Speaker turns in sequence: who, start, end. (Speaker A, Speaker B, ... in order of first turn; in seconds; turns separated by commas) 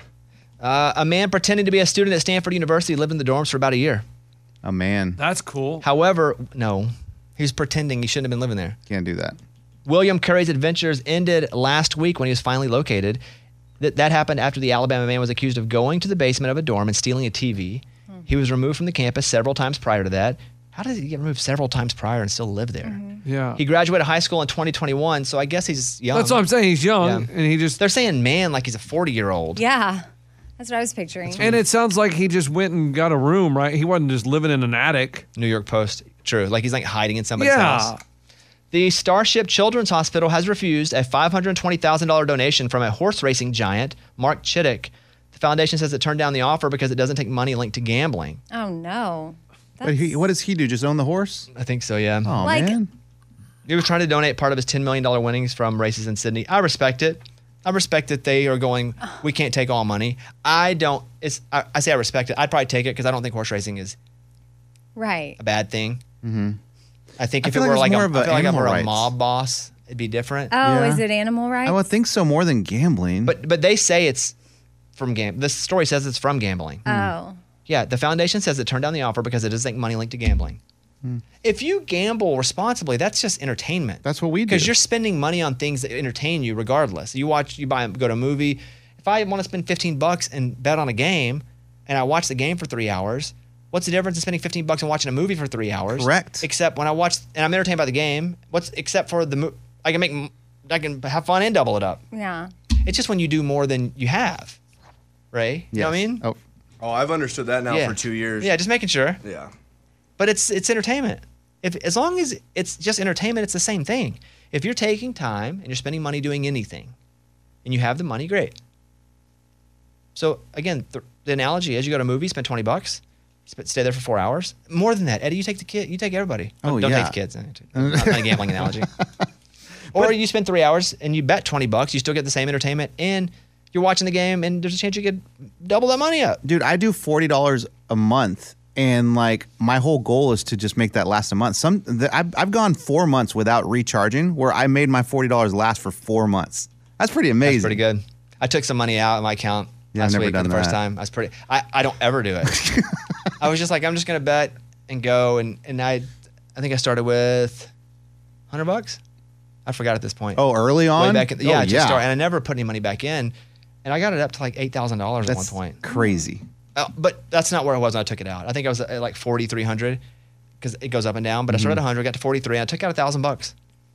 Speaker A: 0.6-4.0, Speaker B: 4.6-5.2, Speaker C: 5.2-5.8, Speaker A: 5.8-8.8, Speaker B: 8.9-9.4, Speaker A: 9.9-13.2, Speaker A: 13.8-23.0, Speaker D: 22.8-23.2, Speaker C: 23.2-23.6, Speaker A: 23.6-26.4, Speaker C: 26.1-27.8, Speaker A: 27.0-29.6, Speaker D: 29.6-30.1, Speaker D: 30.6-31.4, Speaker A: 31.3-31.6, Speaker C: 31.4-35.3, Speaker A: 35.4-37.9, Speaker C: 37.4-38.0, Speaker A: 38.7-48.4, Speaker D: 48.5-50.2, Speaker B: 49.8-51.5, Speaker A: 51.5-52.4, Speaker B: 52.2-52.9, Speaker D: 52.4-52.8, Speaker A: 53.7-64.0, Speaker D: 65.0-65.4, Speaker A: 65.4-66.0, Speaker B: 66.2-66.6, Speaker A: 67.2-70.5, Speaker B: 67.4-69.1, Speaker D: 70.5-71.8, Speaker B: 70.6-71.0, Speaker B: 71.6-73.4, Speaker A: 73.2-74.3, Speaker A: 75.0-76.8, Speaker B: 76.9-77.2, Speaker D: 76.9-77.4, Speaker A: 77.7-80.6, Speaker A: 81.4-102.0, Speaker B: 84.0-84.7, Speaker B: 95.9-96.5, Speaker D: 102.1-102.5, Speaker A: 102.8-104.6, Speaker A: 105.3-106.2, Speaker B: 105.7-106.4, Speaker E: 106.8-108.5, Speaker A: 107.7-109.2, Speaker E: 109.2-109.5, Speaker A: 110.2-117.0, Speaker A: 117.7-118.6, Speaker A: 120.2-128.9, Speaker B: 126.6-127.2, Speaker B: 127.7-129.1, Speaker A: 129.9-136.4, Speaker B: 136.4-147.8, Speaker A: 147.4-152.6, Speaker B: 149.9-150.8, Speaker B: 152.5-153.0, Speaker A: 153.4-157.7, Speaker A: 158.5-159.0, Speaker A: 159.7-160.4, Speaker B: 160.3-162.1, Speaker A: 160.9-165.8, Speaker B: 165.2-166.4, Speaker D: 165.9-166.3, Speaker A: 166.8-170.0, Speaker A: 170.6-173.5, Speaker B: 171.5-171.8